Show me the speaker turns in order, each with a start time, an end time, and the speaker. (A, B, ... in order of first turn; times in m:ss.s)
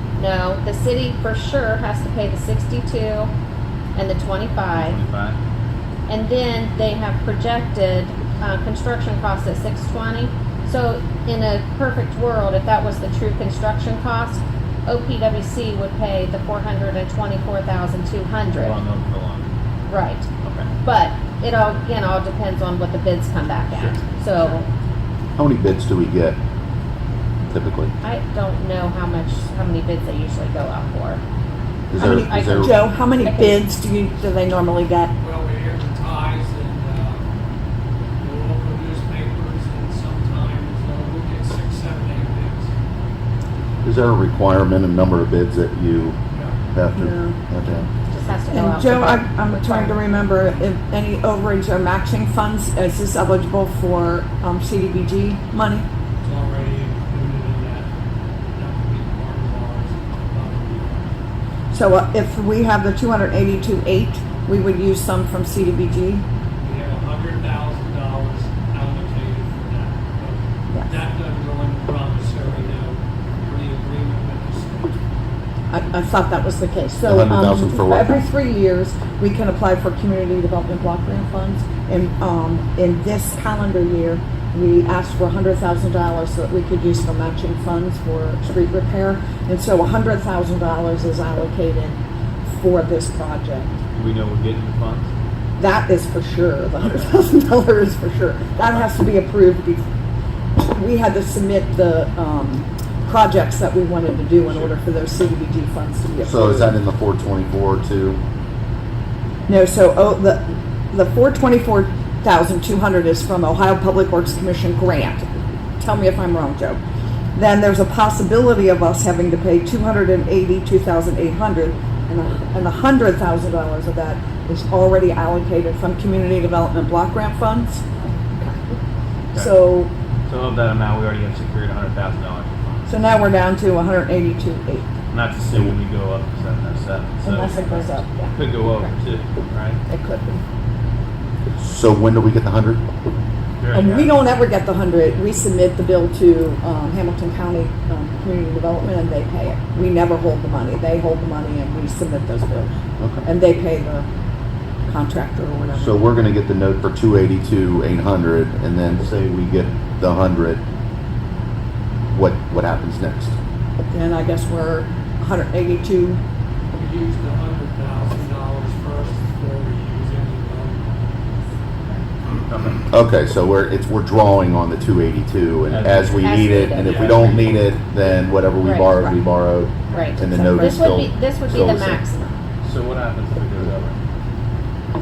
0:00.2-0:03.3 A
0:04.0-0:05.0 A
0:04.7-0:05.4 B
0:06.1-0:18.8 A
0:18.5-0:19.5 B
0:19.9-0:20.3 A
0:20.4-0:20.7 B
0:20.8-0:24.7 A
0:25.4-0:26.4 C
0:27.5-0:27.9 C
0:28.0-0:31.2 A
0:31.9-0:32.8 C
0:32.0-0:35.1 D
0:32.1-0:32.7 A
0:33.2-0:33.6 A
0:35.2-0:37.3 E
0:38.2-0:42.7 E
0:43.8-0:46.2 C
0:46.3-0:46.6 E
0:46.7-0:47.9 C
0:47.0-0:47.4 D
0:48.1-0:50.0 A
0:48.5-0:55.9 D
0:56.2-0:57.9 E
0:58.6-1:01.1 E
1:01.7-1:06.2 D
1:06.6-1:15.0 E
1:10.7-1:11.0 D
1:15.7-1:33.8 D
1:17.0-1:18.2 C
1:33.9-1:35.1 B
1:35.6-1:39.9 D
1:40.6-1:46.7 D
1:46.2-1:48.2 C
1:49.5-1:56.8 D
1:57.3-2:07.8 D
2:08.4-2:08.8 D
2:09.3-2:09.9 D
2:10.3-2:12.9 B
2:12.9-2:14.9 D
2:15.1-2:19.8 B
2:17.2-2:18.6 D
2:19.9-2:20.4 D
2:21.6-2:22.8 C
2:23.6-2:24.2 B
2:23.7-2:34.1 D
2:33.0-2:33.3 C
2:34.9-2:36.2 D
2:35.8-2:40.6 C
2:42.1-2:43.4 C
2:43.9-2:46.2 D
2:46.7-2:51.2 E
2:52.4-2:52.8 B
2:52.9-3:02.0 C
2:55.7-2:56.3 B
2:56.2-2:57.4 A
2:56.8-2:57.3 E
2:58.6-2:58.9 A
2:59.9-3:02.3 A
3:02.6-3:04.0 B